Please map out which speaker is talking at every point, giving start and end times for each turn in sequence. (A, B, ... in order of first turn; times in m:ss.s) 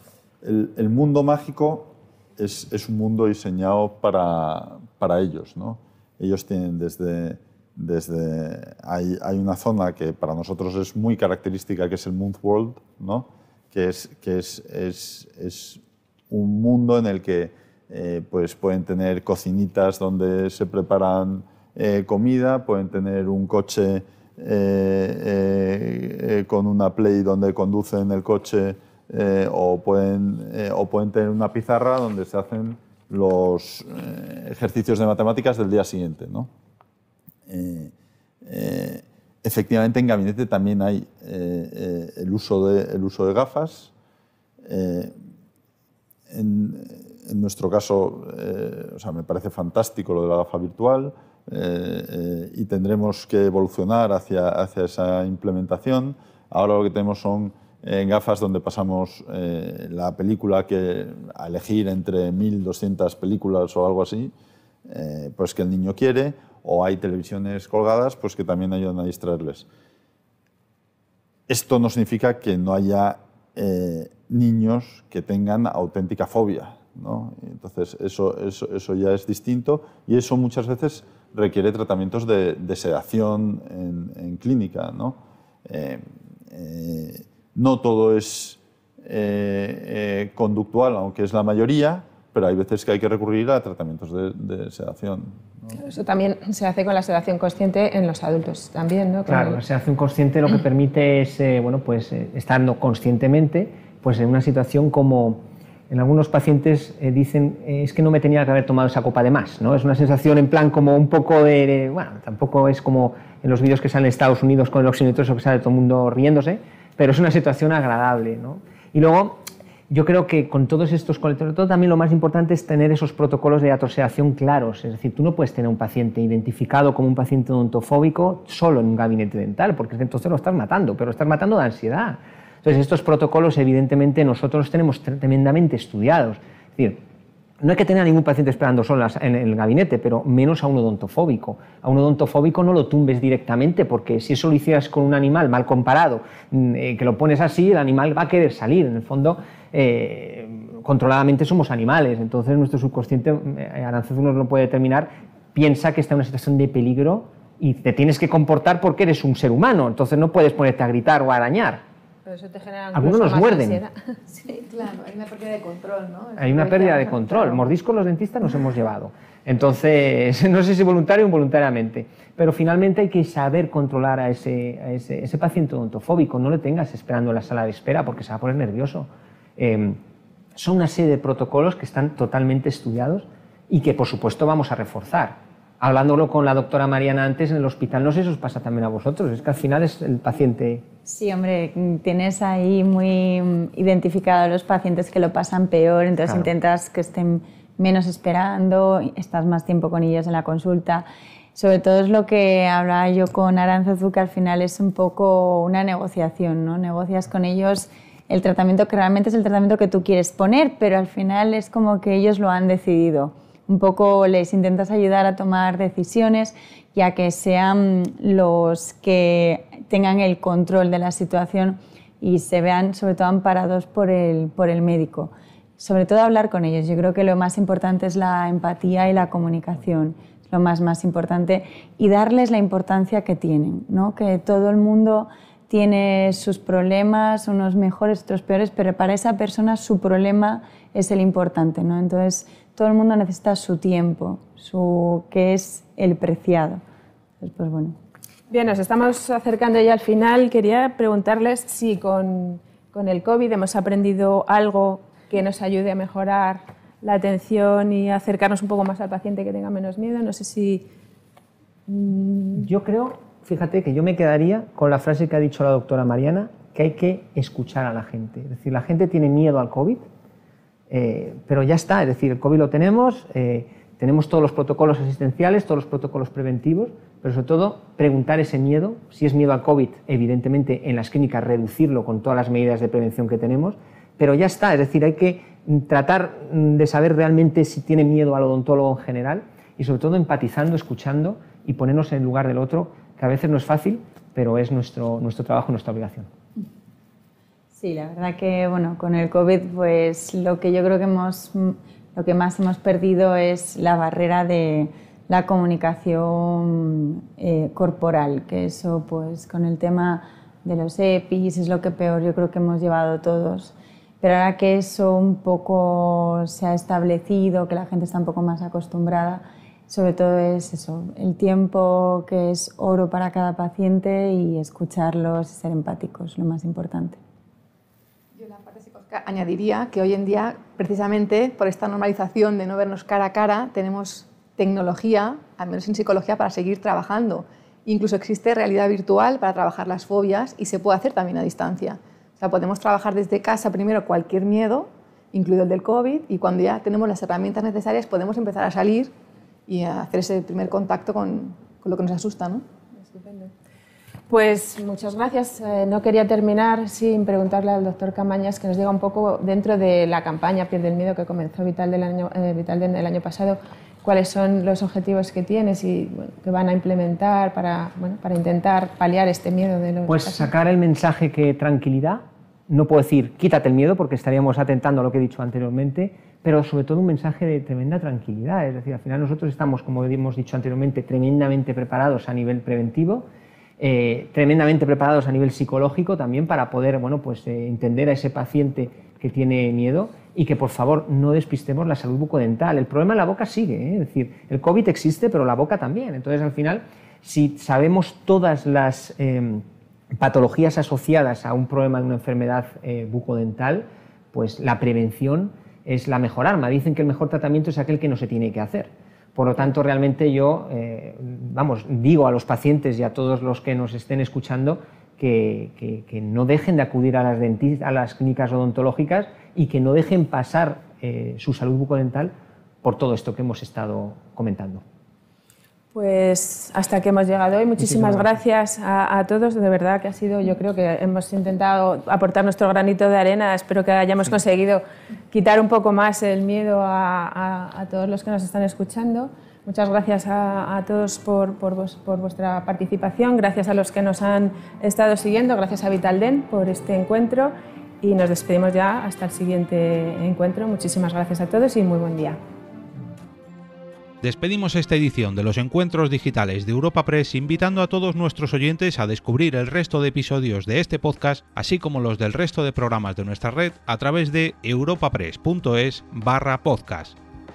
0:00.4-0:36.5 A
0:37.5-0:43.9 A
0:44.6-0:45.1 A
0:46.3-1:04.3 A
1:04.8-1:09.6 A
1:11.5-1:35.8 A
1:35.7-1:39.6 B
1:39.2-2:17.0 C
2:17.6-2:41.8 C
2:42.2-2:44.1 B
2:42.9-2:43.8 C
2:44.3-2:47.6 D
2:46.4-3:00.0 C
3:00.6-3:10.8 C
3:11.0-4:06.8 E
3:16.2-3:16.5 C
4:07.4-4:08.0 E
4:08.5-4:20.9 B
4:21.9-4:22.7 B
4:22.6-4:30.0 C
4:30.9-4:56.3 C
4:57.7-5:27.2 E
5:28.3-5:49.1 D
5:49.7-5:52.6 D
5:53.0-5:53.5 B
5:54.3-6:10.5 B
6:10.0-6:23.2 C
6:23.8-7:04.8 C
7:05.9-7:32.4 B
7:07.8-7:08.4 C
7:34.2-7:47.2 F